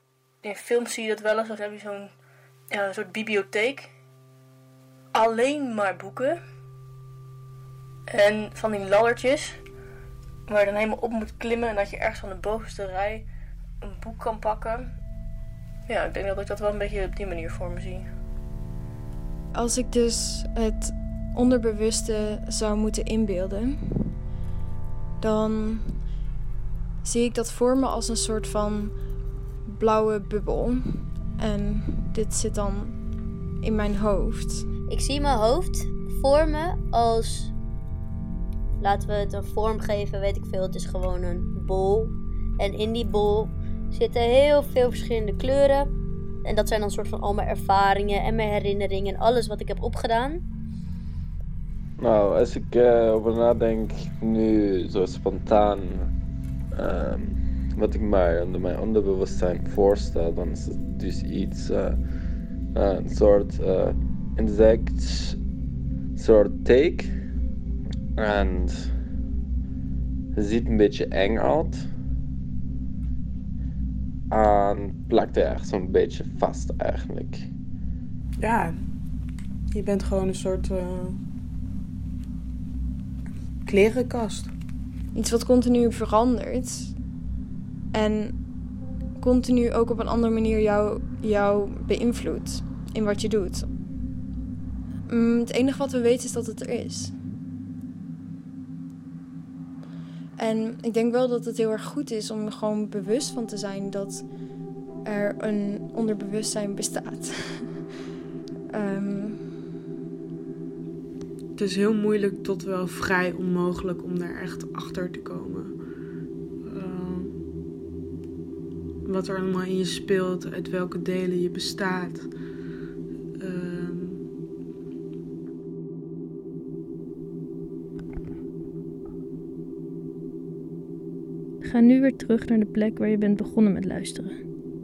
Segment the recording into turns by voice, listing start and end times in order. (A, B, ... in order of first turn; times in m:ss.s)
0:00.4-0:02.1 A
0:02.7-0:03.9 A
0:05.1-0:06.4 A
0:08.1-0:09.6 A
0:10.5-0:13.3 A
0:13.8-0:14.9 A
0:15.9-0:18.1 A
0:19.5-0:24.2 B
0:25.2-0:26.1 B
0:27.0-0:29.1 B
0:29.6-0:33.0 B
0:33.6-0:34.7 B
0:34.9-0:37.5 C
0:38.8-0:45.9 C
0:46.4-0:50.4 C
0:52.0-0:56.1 D
0:56.7-1:02.0 D
1:02.7-1:05.4 D
1:06.2-1:07.1 D
1:08.2-1:08.9 D
1:10.3-1:11.9 D
1:14.3-1:17.5 D
1:18.4-1:18.9 E
1:19.7-1:21.2 E
1:23.6-1:24.5 E
1:25.1-1:27.0 B
1:27.9-1:33.7 B
1:35.1-1:37.2 B
1:40.4-1:44.5 B
1:45.0-1:47.9 B
1:48.7-1:49.6 B
1:51.6-1:55.8 E
1:56.6-1:57.4 E
1:59.0-2:02.3 E
2:03.4-2:04.2 E
2:11.6-2:14.3 F